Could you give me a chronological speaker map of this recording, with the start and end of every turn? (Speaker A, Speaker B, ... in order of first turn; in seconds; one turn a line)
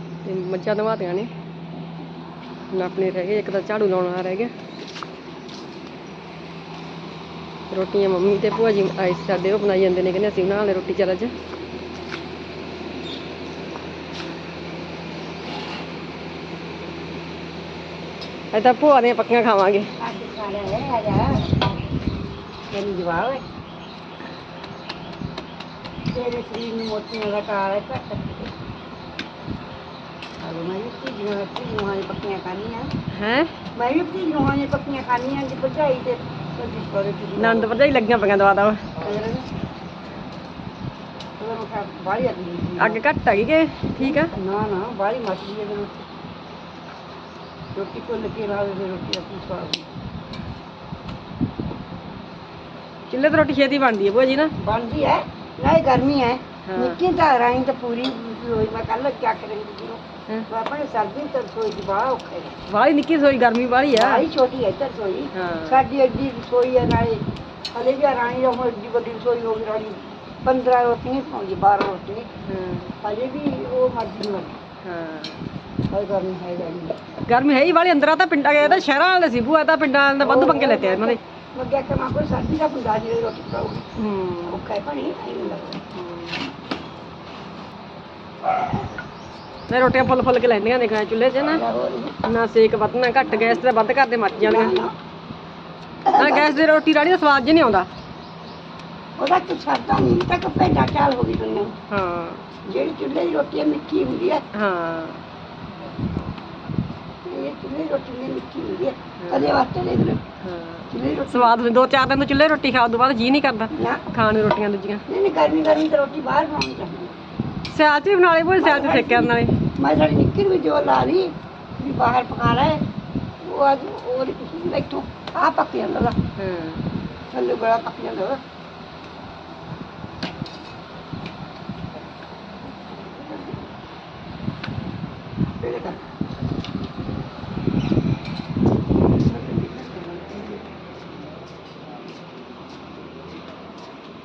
Speaker A: 0.2-1.3
Speaker A: 2.7-4.5
Speaker A: 7.7-11.3
Speaker A: 18.5-19.9
Speaker B: 20.0-21.6
Speaker B: 22.7-23.4
Speaker B: 26.1-28.5
Speaker B: 30.4-32.9
Speaker A: 33.1-33.5
Speaker B: 33.7-37.7
Speaker A: 37.4-38.9
Speaker B: 39.0-39.5
Speaker B: 41.4-43.0
Speaker A: 42.8-44.3
Speaker B: 44.0-46.0
Speaker B: 47.7-49.9
Speaker A: 53.1-54.5
Speaker B: 54.6-62.5
Speaker A: 56.6-57.0
Speaker A: 62.7-64.2
Speaker B: 63.9-72.3
Speaker A: 65.3-65.8
Speaker A: 72.5-72.9
Speaker B: 73.0-74.6
Speaker A: 74.8-75.4
Speaker B: 75.9-77.0
Speaker A: 77.3-81.2
Speaker B: 80.2-83.8
Speaker A: 84.0-84.6
Speaker B: 84.5-85.8
Speaker A: 85.9-86.5
Speaker A: 89.7-91.6
Speaker B: 91.4-92.2
Speaker A: 92.2-94.7
Speaker B: 93.2-93.6
Speaker B: 94.3-94.9
Speaker B: 96.0-96.6
Speaker A: 96.2-97.9
Speaker B: 99.2-101.7
Speaker A: 101.9-102.4
Speaker B: 102.7-104.4
Speaker A: 104.5-105.2
Speaker B: 107.2-110.2
Speaker A: 109.2-109.6
Speaker A: 110.4-115.0
Speaker B: 110.9-111.5
Speaker B: 113.7-114.0
Speaker B: 115.1-117.1
Speaker A: 117.7-119.5
Speaker B: 118.6-122.8
Speaker B: 123.4-126.2
Speaker A: 126.3-126.8
Speaker B: 127.3-128.4
Speaker B: 133.1-133.6
Speaker B: 135.6-136.0
Speaker B: 139.2-140.6